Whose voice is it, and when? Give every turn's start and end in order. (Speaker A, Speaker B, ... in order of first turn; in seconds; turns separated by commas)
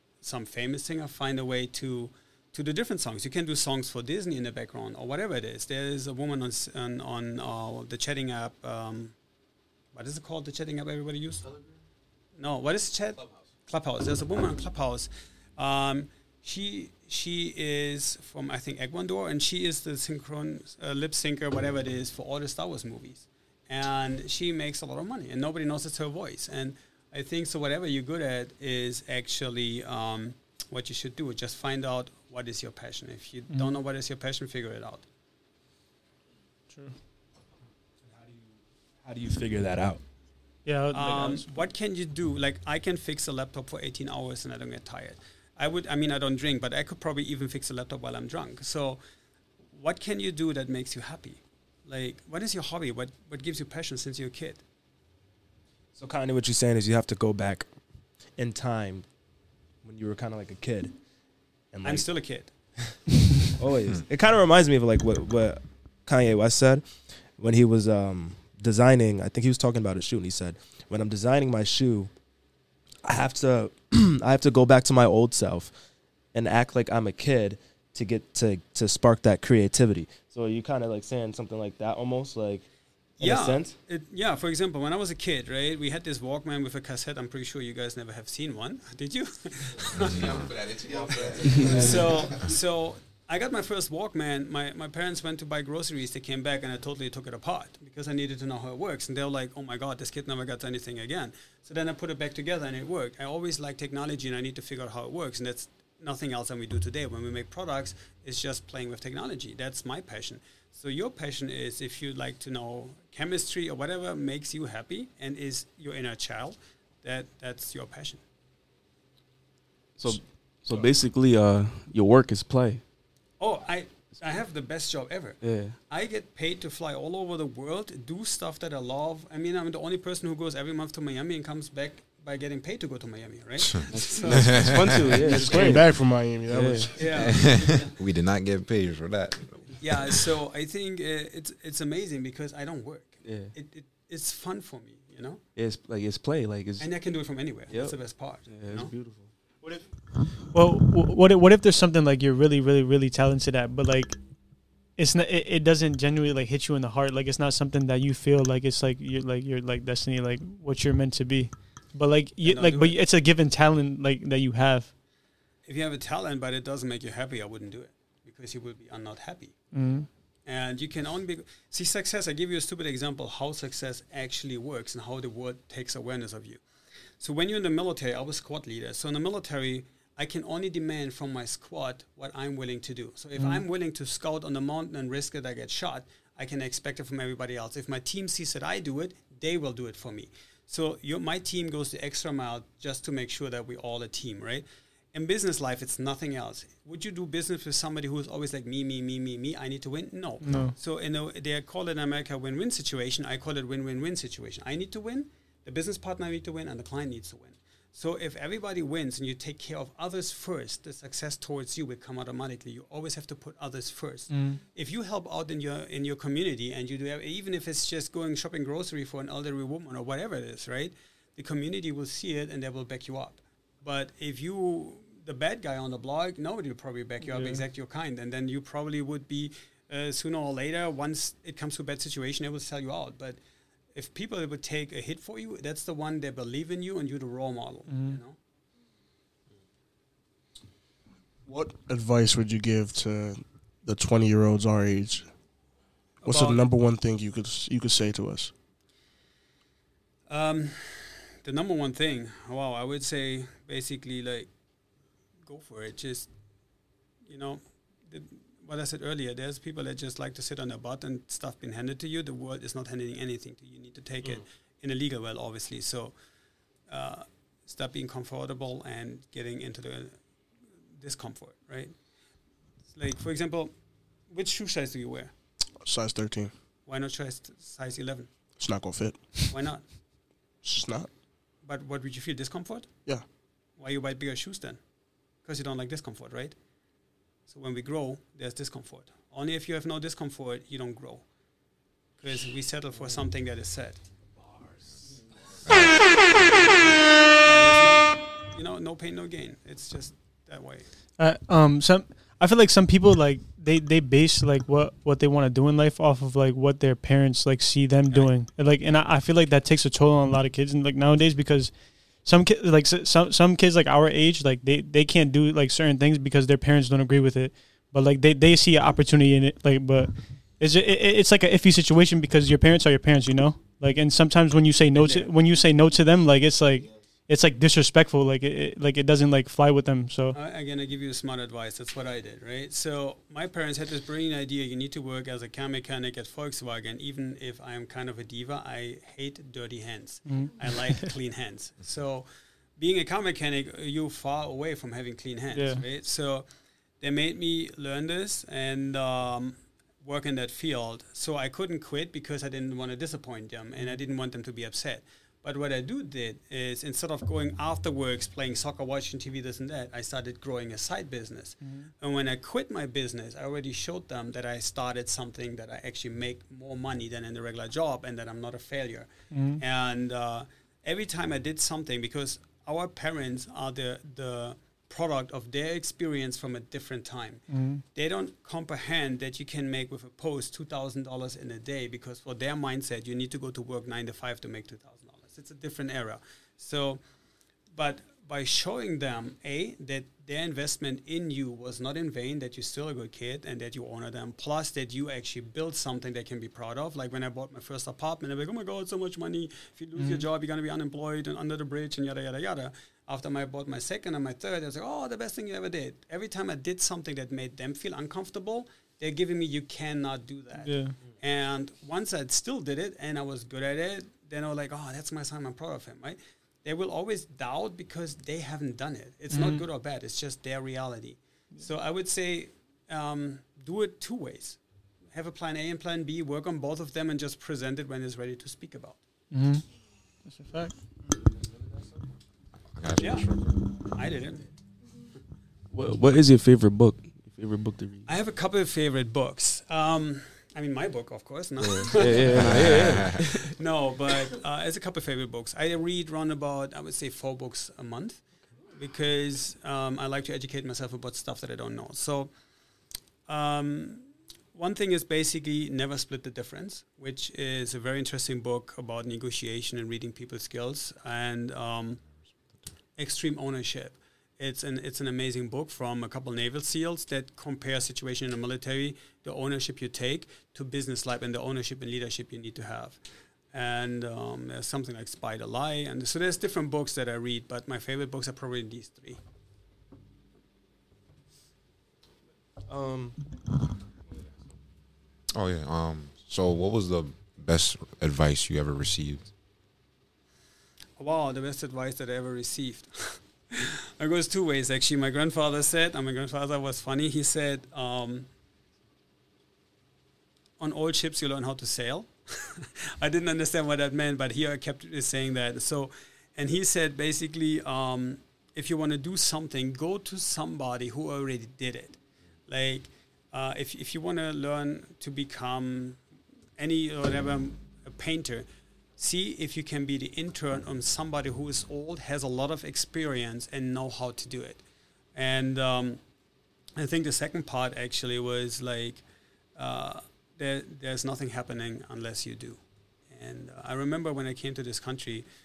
Speaker A: 0.2-9.1, Speaker A: 9.9-11.6, Speaker A: 12.4-35.0, Speaker B: 36.7-37.0, Speaker C: 38.0-38.5, Speaker C: 39.0-40.0, Speaker B: 40.6-41.5, Speaker A: 40.9-49.0, Speaker A: 49.7-54.6, Speaker C: 56.0-57.7, Speaker C: 58.3-59.0, Speaker C: 59.8-61.0, Speaker C: 61.7-62.7, Speaker A: 61.8-62.8, Speaker C: 63.5-72.1, Speaker C: 73.0-75.8, Speaker C: 76.3-83.7, Speaker A: 83.2-118.2, Speaker D: 90.0-90.5, Speaker E: 91.5-92.0, Speaker E: 120.0-122.8, Speaker F: 120.0-120.9, Speaker A: 123.4-134.9, Speaker E: 125.4-125.8, Speaker D: 133.8-135.5, Speaker E: 133.9-137.3, Speaker F: 135.2-137.1, Speaker A: 136.9-137.9, Speaker D: 137.0-140.2, Speaker A: 139.8-145.4, Speaker E: 143.2-143.5, Speaker E: 145.5-149.3, Speaker A: 146.8-148.9, Speaker B: 149.6-154.2, Speaker B: 154.8-164.9, Speaker A: 162.4-163.0, Speaker A: 165.6-169.8, Speaker B: 169.7-170.1, Speaker A: 170.4-176.6, Speaker A: 177.2-233.4, Speaker B: 200.4-200.7, Speaker B: 214.3-214.6, Speaker B: 227.2-227.6, Speaker A: 233.9-238.4, Speaker B: 237.9-238.2, Speaker F: 241.4-245.3, Speaker A: 246.2-246.6, Speaker F: 246.2-248.5, Speaker A: 250.3-254.5, Speaker A: 255.4-256.3, Speaker A: 257.2-266.1, Speaker A: 266.9-270.2, Speaker A: 271.0-272.0, Speaker A: 272.9-273.7, Speaker A: 274.3-275.3, Speaker F: 275.8-276.5, Speaker A: 276.9-278.3, Speaker F: 278.6-279.6, Speaker A: 279.5-279.8, Speaker F: 280.6-281.1, Speaker A: 281.6-282.9, Speaker A: 283.8-284.8, Speaker A: 285.4-286.5, Speaker A: 287.5-291.3, Speaker A: 292.2-294.1, Speaker D: 295.6-297.0, Speaker A: 297.4-300.9, Speaker B: 301.2-330.4, Speaker A: 325.0-325.3, Speaker C: 326.7-327.0, Speaker A: 330.3-346.5, Speaker B: 340.2-341.1, Speaker B: 345.5-345.8, Speaker A: 347.0-387.0, Speaker B: 361.6-361.9, Speaker B: 369.3-369.6, Speaker B: 377.5-377.8, Speaker A: 387.7-424.6, Speaker B: 400.0-400.2, Speaker B: 410.6-411.0, Speaker B: 419.3-419.6, Speaker A: 425.1-429.0, Speaker B: 429.3-430.9, Speaker C: 431.2-431.8, Speaker D: 432.6-433.7, Speaker A: 433.0-434.5, Speaker E: 435.7-438.1, Speaker A: 438.1-452.3, Speaker E: 441.6-443.5, Speaker D: 442.3-443.2, Speaker A: 453.3-462.0, Speaker A: 463.0-473.0, Speaker A: 473.5-479.2, Speaker C: 482.6-483.2, Speaker D: 485.3-489.3, Speaker A: 491.0-498.3, Speaker A: 500.6-516.0, Speaker A: 516.6-518.5, Speaker A: 519.0-524.6, Speaker A: 525.1-526.0, Speaker A: 526.8-529.0, Speaker A: 529.5-535.2